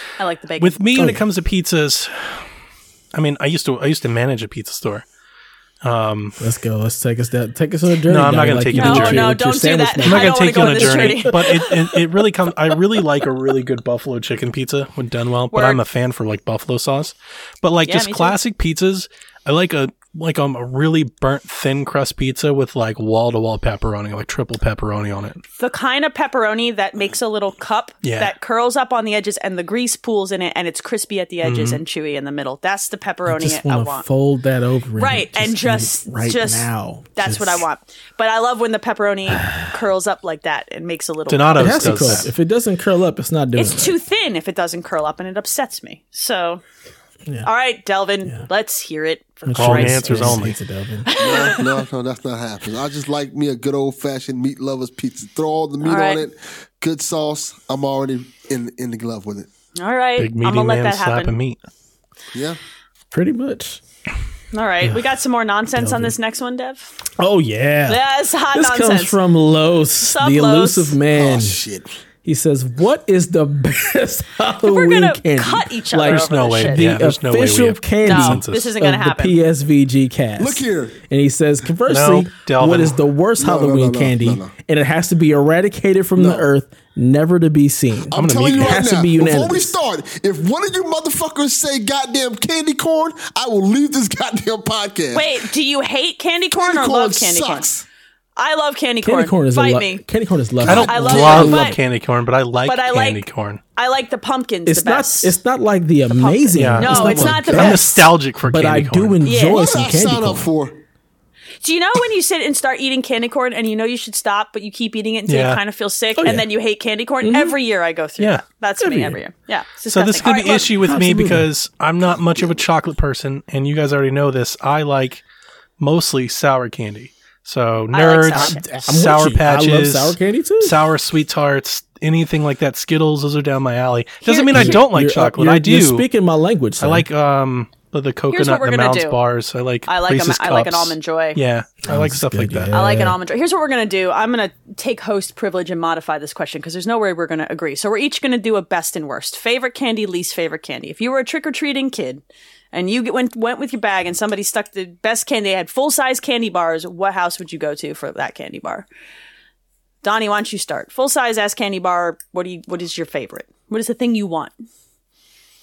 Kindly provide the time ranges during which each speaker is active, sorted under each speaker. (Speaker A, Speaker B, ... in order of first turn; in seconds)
Speaker A: 0.2-1.2, 8.8-12.0, 15.5-15.8, 17.9-18.4, 25.6-34.0, 35.0-42.2, 43.6-46.6, 47.4-50.4, 51.0-51.8, 55.8-56.2, 59.8-61.4, 64.5-66.9, 67.9-69.2, 70.0-71.0, 74.6-76.9, 78.0-79.4, 95.1-97.7, 98.4-100.0, 100.7-101.8, 102.7-103.2, 103.8-105.3, 106.1-107.9, 109.2-109.8, 111.6-120.8, 127.9-128.7, 134.2-134.9, 138.3-139.2, 139.9-141.4, 142.7-158.9, 160.0-164.5
Speaker B: 0.6-2.5, 3.1-5.0, 5.8-6.4, 8.1-9.4, 10.0-25.4, 28.0-28.3, 31.4-31.8, 41.3-42.3, 49.5-50.6, 60.2-61.6, 76.0-78.7, 81.9-83.0, 88.1-88.8, 100.6-103.6, 106.6-109.2, 115.3-115.6, 119.9-125.2, 125.8-136.1, 136.8-142.8
Speaker C: 0.9-1.2, 6.4-11.7, 33.3-37.6, 39.4-39.6, 41.6-44.0, 49.5-51.1, 63.1-63.8, 65.8-66.2, 67.2-71.6, 72.2-89.8, 99.0-101.8, 104.7-110.5, 116.2-116.5, 117.2-117.6, 118.8-119.2, 120.8-121.5, 128.3-130.8, 134.5-137.1, 141.8-143.2
Speaker D: 51.2-59.5, 71.1-71.9, 80.4-81.0, 83.4-84.5, 86.2-86.5, 88.1-95.4, 96.5-97.8, 100.6-101.6, 106.8-107.7, 109.5-110.8